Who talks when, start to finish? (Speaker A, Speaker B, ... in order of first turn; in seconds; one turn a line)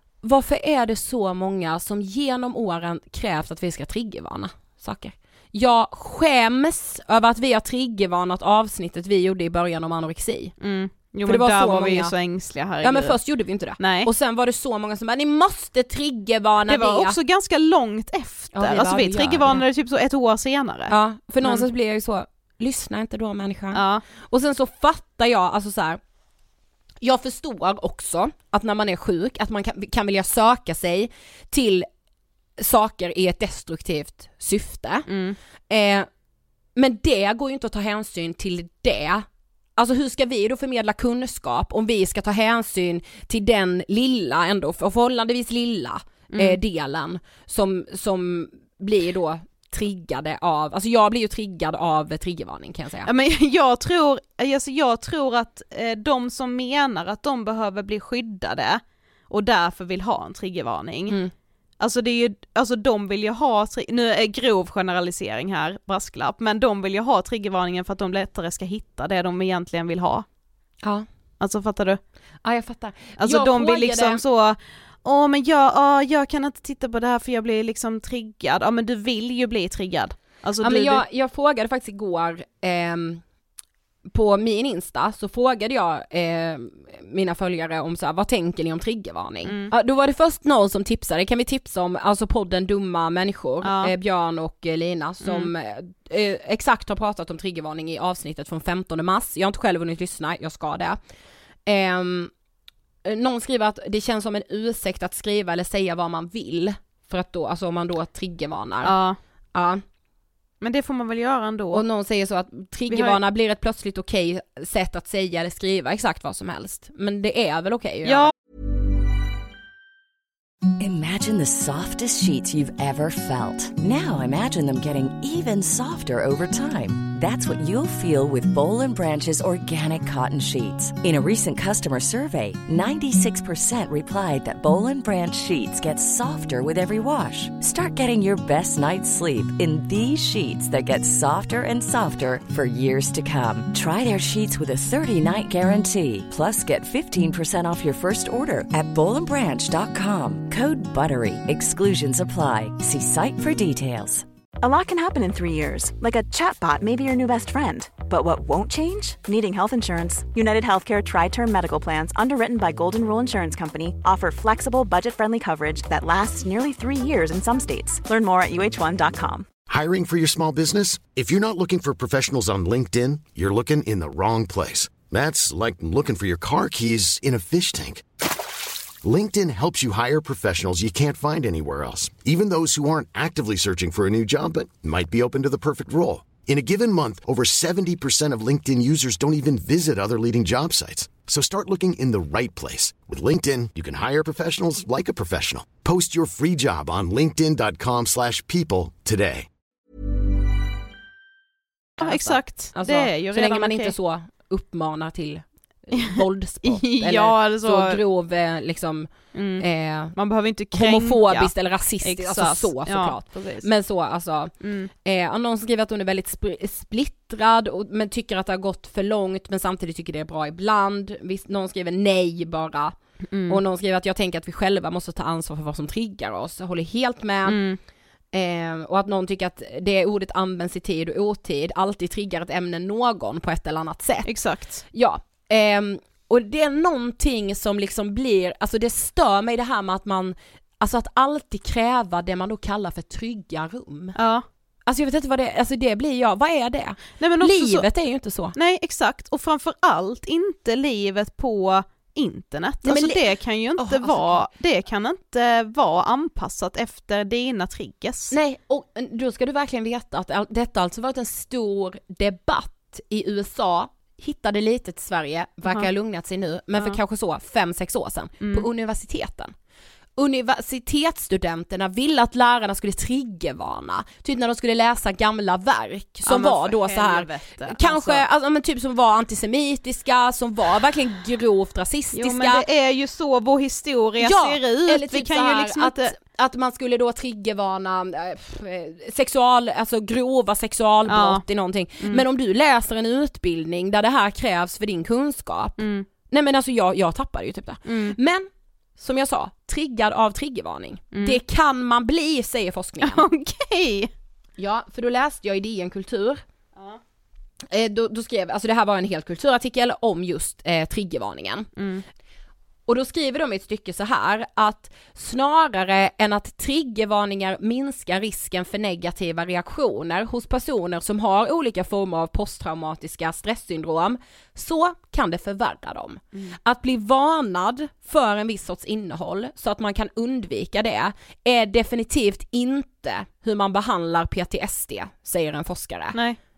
Speaker A: 0.2-10.6
Speaker B: 10.6-13.2
Speaker A: 11.3-12.1
Speaker A: 12.8-17.2
Speaker B: 13.8-14.1
Speaker B: 16.7-21.7
Speaker A: 18.5-19.6
Speaker A: 20.9-26.0
Speaker B: 23.7-24.0
Speaker A: 27.0-31.9
Speaker A: 32.6-35.1
Speaker B: 35.1-35.4
Speaker A: 35.7-36.1
Speaker A: 36.8-39.3
Speaker A: 39.8-53.1
Speaker B: 46.3-46.6
Speaker B: 53.0-61.2
Speaker B: 61.8-70.2
Speaker B: 71.4-72.0
Speaker A: 72.4-74.2
Speaker B: 73.2-81.0
Speaker A: 80.6-83.2
Speaker A: 84.1-101.0
Speaker B: 89.4-89.7
Speaker B: 93.6-93.9
Speaker B: 95.2-95.5
Speaker A: 101.7-102.3
Speaker A: 103.0-109.0
Speaker B: 108.8-109.2
Speaker A: 109.5-109.8
Speaker B: 110.6-111.8
Speaker A: 111.7-118.3
Speaker B: 112.9-113.2
Speaker B: 118.0-118.3
Speaker C: 120.8-154.2
Speaker D: 154.6-169.5
Speaker E: 169.7-178.0
Speaker E: 179.0-199.5
Speaker B: 202.0-203.9
Speaker A: 202.0-210.2
Speaker B: 206.6-208.0
Speaker B: 209.3-213.7
Speaker A: 210.7-214.5
Speaker B: 214.6-214.9
Speaker A: 215.1-222.9
Speaker B: 223.3-223.6
Speaker A: 223.5-227.6
Speaker B: 227.4-227.8
Speaker A: 228.3-234.3
Speaker B: 234.2-234.8
Speaker A: 234.9-244.2
Speaker B: 244.2-244.4
Speaker A: 244.9-248.6
Speaker B: 247.2-247.9
Speaker B: 248.6-258.4
Speaker A: 252.8-253.2
Speaker A: 253.8-254.5
Speaker A: 258.3-269.5
Speaker B: 268.4-268.7
Speaker A: 270.2-282.6
Speaker B: 276.3-278.2
Speaker B: 282.1-286.2
Speaker A: 284.2-303.2
Speaker B: 291.1-291.4
Speaker B: 295.8-296.1
Speaker B: 297.9-298.2
Speaker B: 301.1-301.4
Speaker B: 303.0-304.1
Speaker A: 304.6-306.4
Speaker A: 307.7-311.7
Speaker B: 311.8-312.0
Speaker A: 312.9-336.2